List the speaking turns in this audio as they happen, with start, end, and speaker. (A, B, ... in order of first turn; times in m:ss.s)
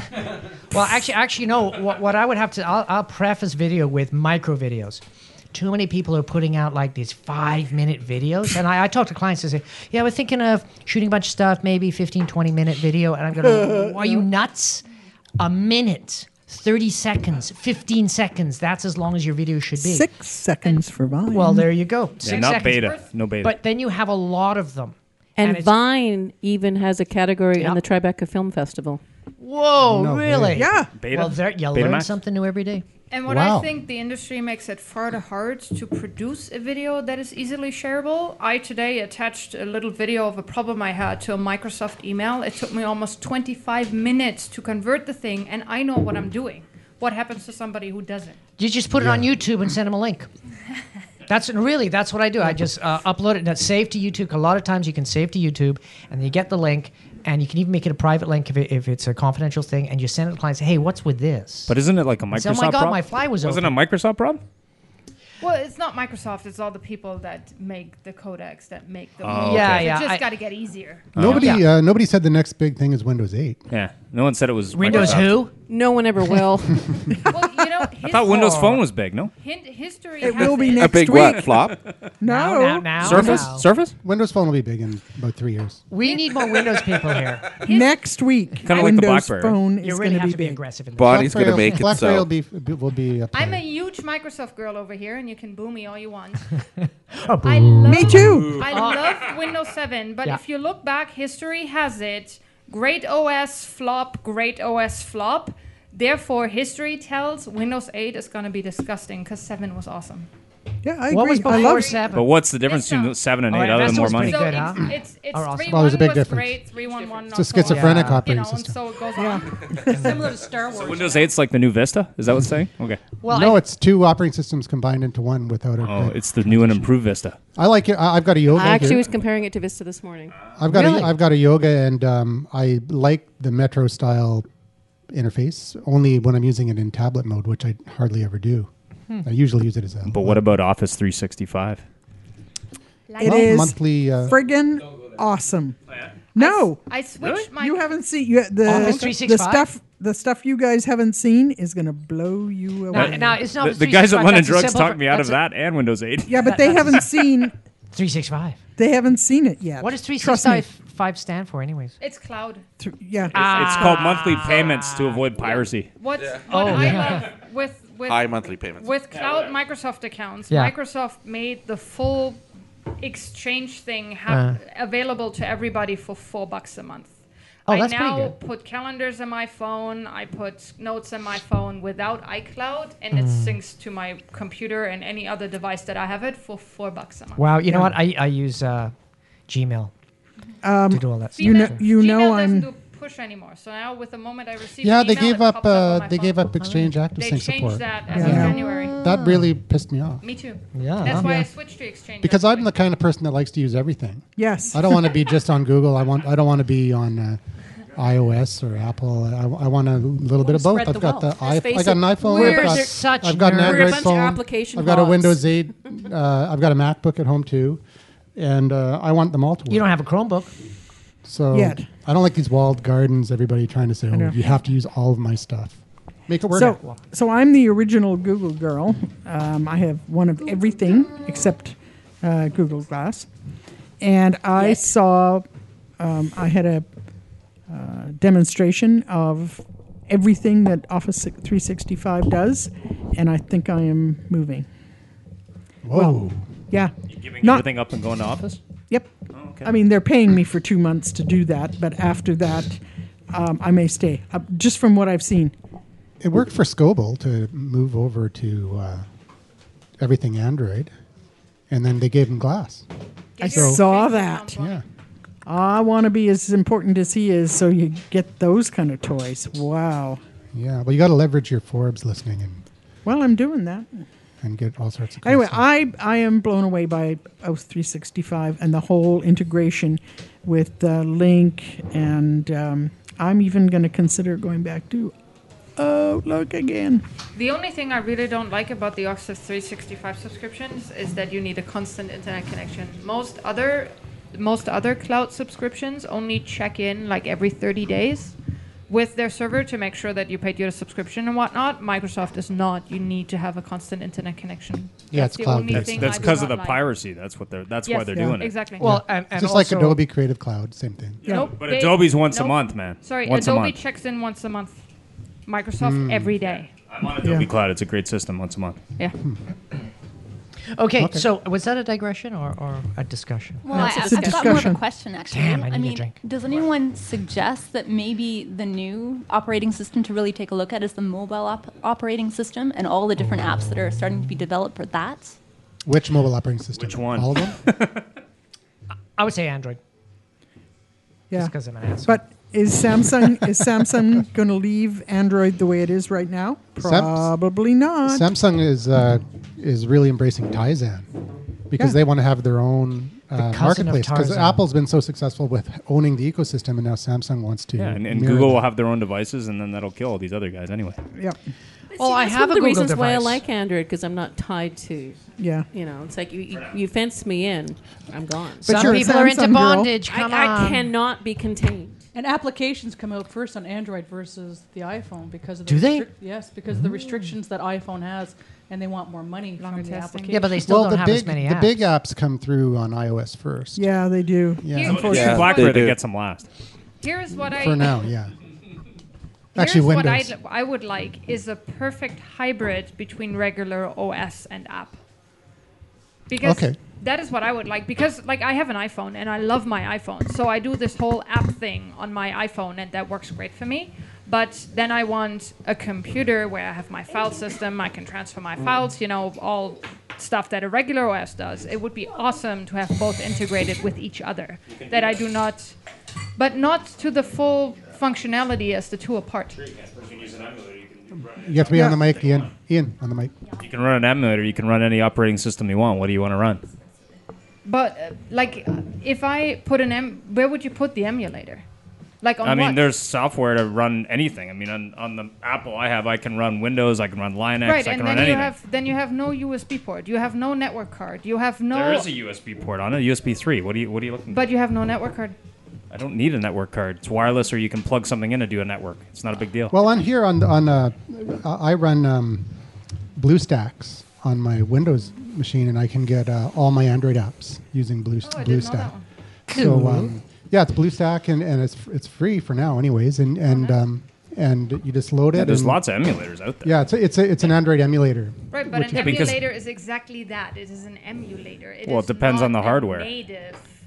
0:00.7-0:05.0 A
0:05.5-0:14.8 A
0:15.4-0:20.1 A
0:19.8-0:21.8 B
0:21.3-0:25.7 A
0:22.2-0:23.6 C
0:22.3-0:23.1 D
0:25.4-0:29.0 E
0:27.6-0:27.8 A
0:29.4-0:32.8 A
0:29.8-0:30.6 F
0:30.6-0:30.9 B
0:31.0-0:32.1 C
0:33.1-0:48.4 D
0:33.3-0:33.7 F
0:48.6-0:50.3 A
0:48.9-0:49.3 F
0:51.3-1:01.8 A
1:01.7-1:04.4 C
1:02.3-1:03.8 A
1:05.4-1:11.1 D
1:09.2-1:10.0 C
1:09.3-1:10.2 A
1:11.2-1:11.6 C
1:11.2-1:13.6 F
1:11.2-1:11.7 A
1:13.7-1:15.5 C
1:14.7-1:15.5 A
1:15.7-1:16.8 E
1:17.3-1:18.7 D
1:18.0-1:19.3 C
1:18.2-1:18.8 A
1:19.4-1:21.4 D
1:20.2-1:21.6 B
1:20.7-1:21.8 G
1:22.2-1:23.4 B
1:22.2-1:23.6 A
1:23.0-1:24.0 C
1:24.0-1:25.8 F
1:25.9-1:27.6 A
1:26.0-1:26.8 D
1:27.6-1:30.6 B
1:27.6-1:28.0 D
1:28.6-1:29.6 C
1:29.8-1:31.9 A
1:31.0-1:32.3 G
1:31.0-1:33.6 F
1:33.3-1:36.6 D
1:37.1-1:39.3 A
1:37.4-1:50.3 D
1:37.9-1:38.6 B
1:38.2-1:38.8 C
1:50.8-1:52.0 B
1:51.1-1:52.3 A
1:51.5-1:53.2 D
1:52.1-1:54.6 C
1:53.5-1:55.9 A
1:53.8-1:59.7 D
1:55.6-1:56.6 F
1:56.9-1:57.4 H
1:57.3-1:58.8 F
1:57.7-1:58.3 A
1:59.1-2:00.3 B
1:59.9-2:00.3 A
1:59.9-2:01.3 H
2:00.7-2:03.0 C
2:03.2-2:03.6 A
2:03.3-2:06.9 F
2:05.8-2:07.4 C
2:07.6-2:09.0 F
2:08.5-2:10.4 E
2:10.6-2:14.5 F
2:10.7-2:11.2 A
2:15.1-2:18.7 F
2:19.2-2:20.5 F
2:20.1-2:21.8 C
2:23.2-2:25.8 B
2:23.2-2:24.4 F
2:26.4-2:26.8 B
2:26.4-2:28.0 D
2:27.2-2:27.5 C
2:27.5-2:33.4 B
2:28.6-2:29.7 A
2:28.8-2:29.0 C
2:32.9-2:36.9 C
2:32.9-2:35.4 A
2:36.3-2:37.5 B
2:36.4-2:37.0 A
2:37.9-2:38.6 A
2:38.8-2:40.7 B
2:39.8-2:42.0 A
2:42.0-2:42.6 D
2:42.8-2:44.2 B
2:43.3-2:45.2 A
2:43.3-2:45.9 C
2:46.0-2:52.4 D
2:46.5-2:47.3 A
2:48.1-2:49.0 G
2:50.5-2:50.7 A
2:53.0-2:57.1 D
2:54.3-2:54.6 A
2:57.7-2:58.3 A
2:57.7-3:07.5 D
3:03.1-3:03.6 A
3:07.4-3:08.9 A
3:07.7-3:07.9 B
3:09.5-3:09.9 A
3:10.6-3:12.7 B
3:10.9-3:11.8 A
3:11.4-3:16.5 D
3:14.8-3:20.2 F
3:16.6-3:16.9 A
3:17.2-3:19.0 D
3:18.1-3:18.6 B
3:18.2-3:19.5 A
3:20.2-3:22.7 D
3:20.7-3:21.4 A
3:21.1-3:21.5 B
3:22.2-3:27.4 F
3:24.4-3:25.2 B
3:27.9-3:37.8 F
3:30.5-3:30.7 H
3:30.6-3:32.9 E
3:32.3-3:34.1 A
3:33.6-3:35.5 E
3:38.4-3:39.9 F
3:39.7-3:40.5 A
3:41.2-3:46.8 F
3:41.5-3:41.9 B
3:44.1-3:44.4 B
3:46.5-3:53.3 B
3:54.0-3:55.4 B
3:56.0-3:56.9 B
3:57.7-4:04.7 B
4:05.8-4:06.4 F
4:05.9-4:07.7 B
4:07.1-4:08.6 C
4:09.3-4:09.7 C
4:09.6-4:12.8 B
4:13.3-4:15.5 B
4:16.2-4:19.0 F
4:20.0-4:20.9 F
4:21.7-4:22.8 F
4:23.4-4:24.8 D
4:23.4-4:24.6 B
4:23.5-4:23.8 F
4:24.6-4:24.8 F
4:25.5-4:30.2 B
4:30.5-4:32.6 F
4:33.0-4:34.1 B
4:34.4-4:35.7 F
4:35.2-4:45.1 B
4:45.8-4:47.0 B
4:47.4-4:58.4 D
4:58.9-5:06.9 D
5:05.1-5:06.5 F
5:05.7-5:08.6 C
5:07.9-5:09.0 D
5:08.1-5:08.4 B
5:08.8-5:10.0 A
5:08.8-5:11.3 F
5:11.2-5:11.6 B
5:11.3-5:14.8 D
5:11.3-5:13.8 C
5:15.5-5:16.7 D
5:15.8-5:16.4 F
5:16.9-5:18.8 C
5:17.2-5:17.5 B
5:20.7-5:23.8 A
5:21.0-5:21.3 F
5:23.6-5:35.4 I
5:23.7-5:24.8 B
5:25.3-5:26.2 A
5:35.8-5:37.6 F
5:36.8-5:38.0 C
5:39.2-5:39.8 A
5:41.3-5:42.2 A
5:42.1-5:48.3 B
5:46.8-5:47.3 F
5:48.0-5:51.1 F
5:51.7-5:58.7 F
5:53.4-5:54.6 A
5:57.8-6:01.0 C
6:02.0-6:03.4 A
6:02.0-6:05.2 E
6:05.4-6:05.7 B
6:05.7-6:09.0 E
6:08.6-6:09.9 B
6:08.6-6:10.9 A
6:10.1-6:12.0 E
6:12.1-6:20.7 H
6:15.7-6:16.1 A
6:19.6-6:20.4 D
6:20.3-6:21.9 A
6:20.6-6:23.9 F
6:23.8-6:25.5 B
6:24.6-6:25.2 F
6:24.7-6:25.8 D
6:24.8-6:26.5 C
6:25.1-6:26.0 G
6:27.0-6:28.1 D
6:27.4-6:28.3 F
6:29.6-6:30.3 F
6:29.6-6:35.0 D
6:36.3-6:55.8 D
6:36.4-6:36.8 F
6:56.4-6:59.6 D
6:59.6-7:02.5 C
7:01.4-7:03.3 F
7:01.7-7:02.0 B
7:03.6-7:06.6 C
7:07.6-7:11.6 D
7:12.2-7:12.9 D
7:12.4-7:18.5 C
7:17.6-7:22.1 D
7:21.7-7:24.5 C
7:24.3-7:25.4 D
7:25.9-7:29.8 C
7:29.7-7:32.5 F
7:33.2-7:38.9 F
7:38.2-7:39.0 D
7:39.5-7:40.1 A
7:39.5-7:45.8 F
7:43.5-7:43.8 D
7:45.4-7:46.7 C
7:46.6-7:49.4 F
7:48.5-7:53.7 D
7:48.9-7:49.4 C
7:51.8-7:53.1 C